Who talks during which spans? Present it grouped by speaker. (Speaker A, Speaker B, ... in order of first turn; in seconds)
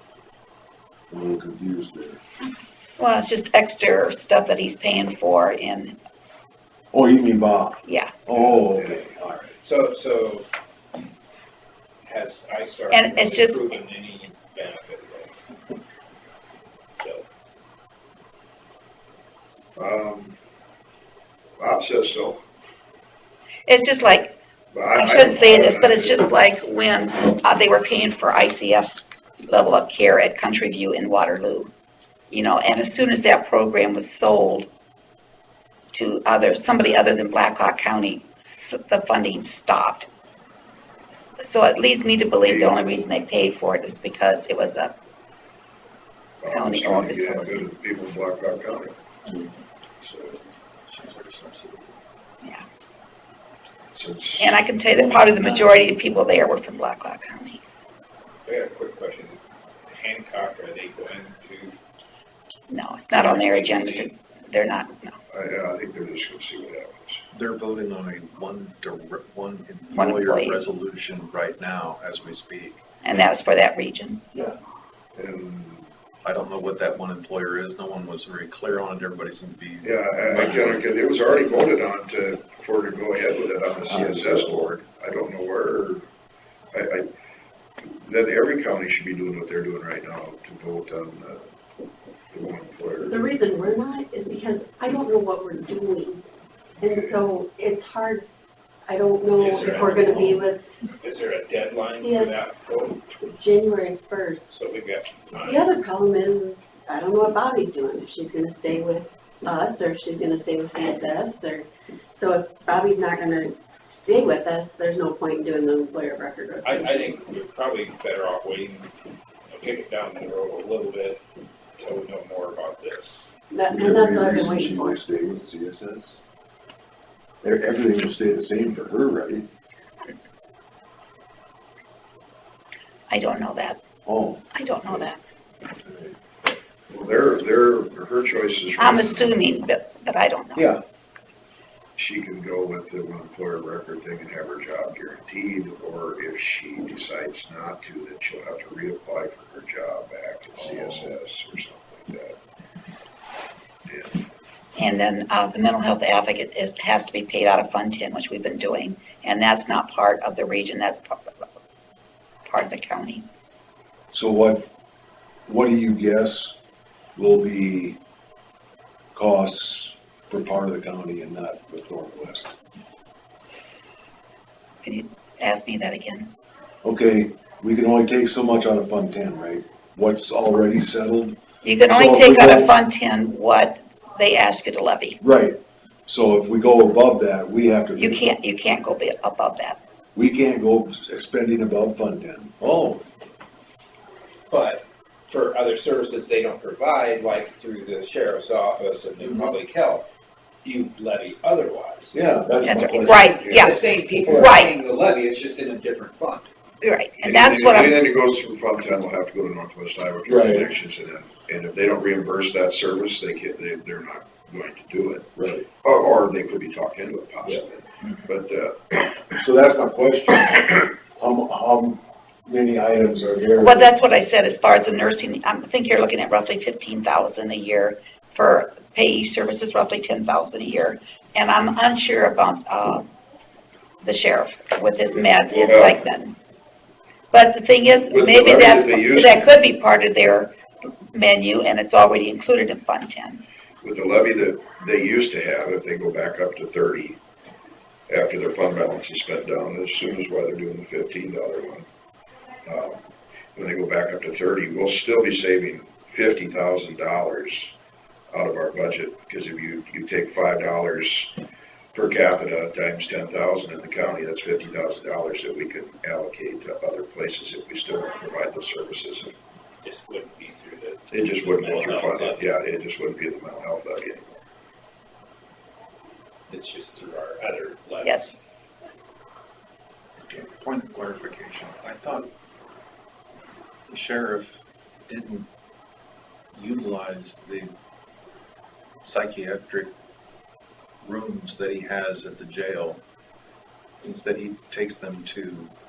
Speaker A: 1.1-2.2, 6.9-9.5, 83.9-84.7, 123.7-126.2, 127.4-129.5, 134.1-135.1, 135.8-136.2, 140.6-140.8, 150.6-151.2, 164.1-164.7, 165.4-166.6, 167.2-168.0, 169.1-172.6, 176.8-182.7, 185.2-188.2, 190.1-193.1, 202.1-204.6, 210.2-210.7, 215.3-215.7, 219.4-223.9
Speaker B: 3.0-6.0, 7.8-8.2, 12.9-13.7, 23.7-24.4, 24.9-28.9, 29.5-31.7, 32.3-34.7, 35.9-40.1, 41.3-45.0, 46.5-47.7, 54.4-57.6, 62.7-65.2, 69.9-70.6, 73.0-74.2, 133.1-133.8, 134.5-135.2, 138.8-140.7, 154.8-161.2, 162.4-163.2, 174.8-176.3, 181.6-185.2, 188.0-189.8, 202.6-203.8, 204.3-204.7, 206.8-208.0, 223.6-233.1, 234.0-236.3, 237.3-240.5, 241.1-243.4, 278.0-278.3
Speaker C: 8.3-9.0, 19.8-20.3, 21.6-22.4, 24.7-26.3, 42.4-42.8, 46.4-48.9, 50.0-50.4, 53.9-54.6, 65.3-67.2, 75.2-75.9, 79.8-86.0, 86.7-87.1, 87.8-91.5, 92.3-93.3, 96.8-97.2, 136.9-139.4, 141.9-152.4, 153.8-154.2, 207.2-215.3, 215.8-219.2, 235.5-236.0, 238.1-239.5, 243.8-247.2, 248.1-251.9, 252.6-257.7, 258.3-261.4, 261.9-269.4, 271.1-274.4
Speaker D: 9.6-10.5, 12.0-15.3, 17.0-17.2, 58.5-61.7, 63.2-64.1, 99.3-100.4, 101.0-103.0, 104.5-105.7, 116.6-118.9, 119.5-121.2, 121.8-123.3, 194.5-200.1, 200.6-202.1, 202.9-206.5, 269.8-272.4, 276.5-278.3
Speaker E: 50.9-52.0, 67.3-72.8, 76.2-80.8, 280.3-282.3, 283.9-284.5, 285.1-285.5, 286.5-287.7, 289.0-289.9, 291.0-293.0, 294.0-295.7
Speaker F: 93.0-96.2, 96.8-98.3, 98.8-100.7, 101.8-102.4, 103.2-104.5, 105.4-117.2, 123.5-125.0